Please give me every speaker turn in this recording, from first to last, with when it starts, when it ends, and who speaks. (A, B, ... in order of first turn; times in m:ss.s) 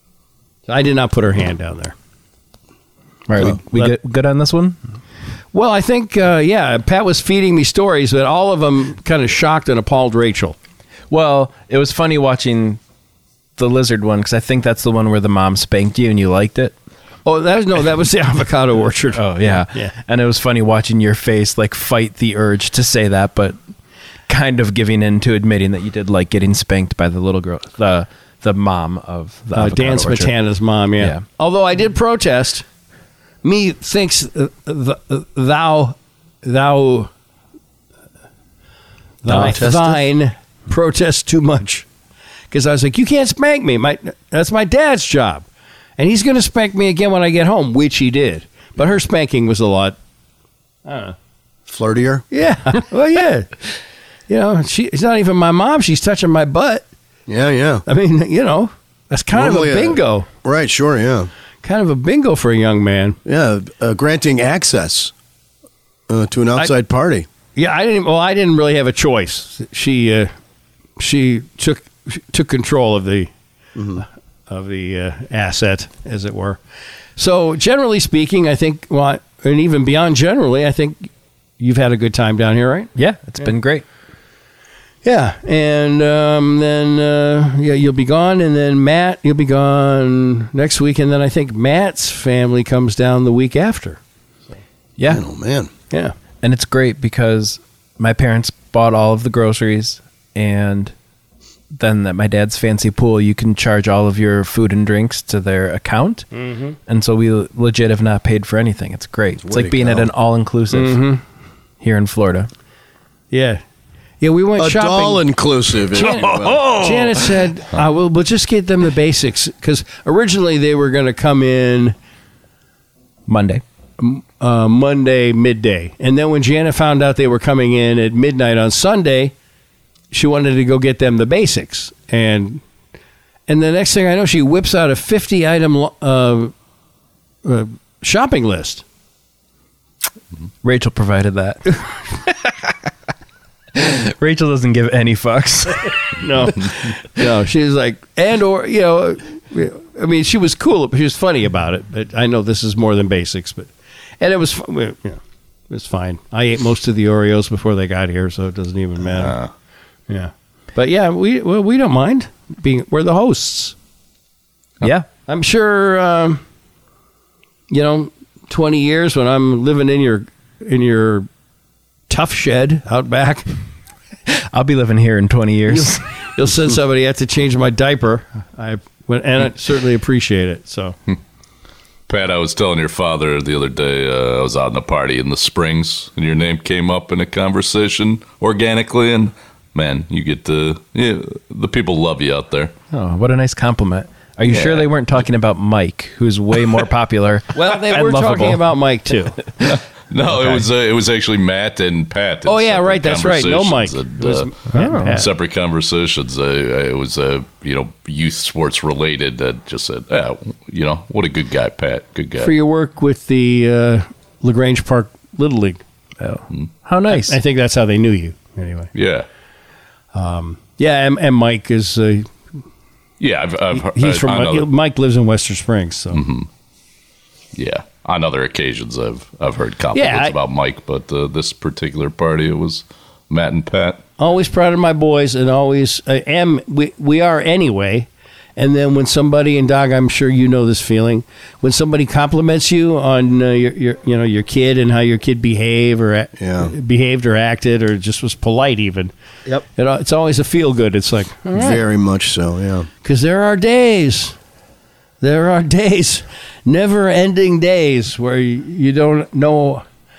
0:00.7-0:02.0 A
0:03.3-0:04.8 B
0:03.4-0:04.0 A
0:05.5-0:10.6 A
0:11.1-0:12.8 B
0:13.6-0:16.7 B
0:17.2-0:19.9 A
0:19.2-0:23.6 B
0:24.3-0:30.3 B
0:29.5-0:32.6 A
0:33.4-0:37.1 A
0:39.2-0:41.9 A
0:39.3-0:39.6 B
0:39.3-0:40.0 C
0:42.5-0:45.5 A
0:46.0-0:50.0 A
0:50.9-0:51.2 A
0:51.7-0:52.2 C
0:52.3-0:53.5 A
0:54.3-0:56.9 A
0:57.3-0:57.8 C
0:57.9-1:00.3 A
0:59.3-1:01.3 C
1:01.6-1:03.2 A
1:03.3-1:05.1 C
1:06.1-1:07.3 C
1:07.6-1:10.3 A
1:11.0-1:13.3 A
1:13.8-1:14.0 C
1:14.5-1:16.6 A
1:17.2-1:22.9 A
1:23.0-1:23.8 B
1:25.0-1:34.0 A
1:35.0-1:35.2 B
1:35.1-1:35.7 C
1:36.4-1:40.9 B
1:41.7-1:46.3 B
1:46.3-1:46.8 A
1:46.9-1:51.0 B
1:49.4-1:50.1 C
1:50.7-1:51.2 A
1:51.8-1:52.5 B
1:53.3-1:53.6 A
1:54.2-1:55.2 A
1:54.6-1:56.8 C
1:55.9-2:02.0 A
1:56.0-1:57.2 B
2:03.3-2:03.6 B
2:04.0-2:09.3 A
2:10.1-2:12.6 A
2:13.5-2:16.5 A
2:17.4-2:18.8 A
2:20.6-2:22.7 B
2:23.7-2:26.5 B
2:26.2-2:39.4 A
2:39.2-2:39.5 D
2:40.1-2:43.8 A
2:44.8-2:45.1 B
2:45.3-2:46.4 A
2:47.7-2:51.3 A
2:52.1-2:53.5 A
2:54.3-2:56.0 B
2:55.7-3:01.0 A
3:02.1-3:12.7 D
3:12.9-3:18.6 B
3:14.5-3:14.9 D
3:17.6-3:19.4 A
3:19.6-3:32.5 D
3:20.3-3:20.7 B
3:22.5-3:25.3 A
3:24.7-3:25.2 B
3:32.4-3:35.8 A
3:36.2-3:37.4 B
3:37.1-3:38.9 A
3:38.9-3:39.3 D
3:40.1-3:42.3 A
3:43.2-3:44.7 D
3:43.8-3:46.2 A
3:46.1-3:46.5 D
3:47.6-3:54.0 D
3:49.9-3:50.4 A
3:54.2-4:09.1 A
4:06.4-4:06.7 C
4:09.7-4:11.8 A
4:11.5-4:12.9 C
4:13.0-4:14.4 A
4:15.2-4:19.8 A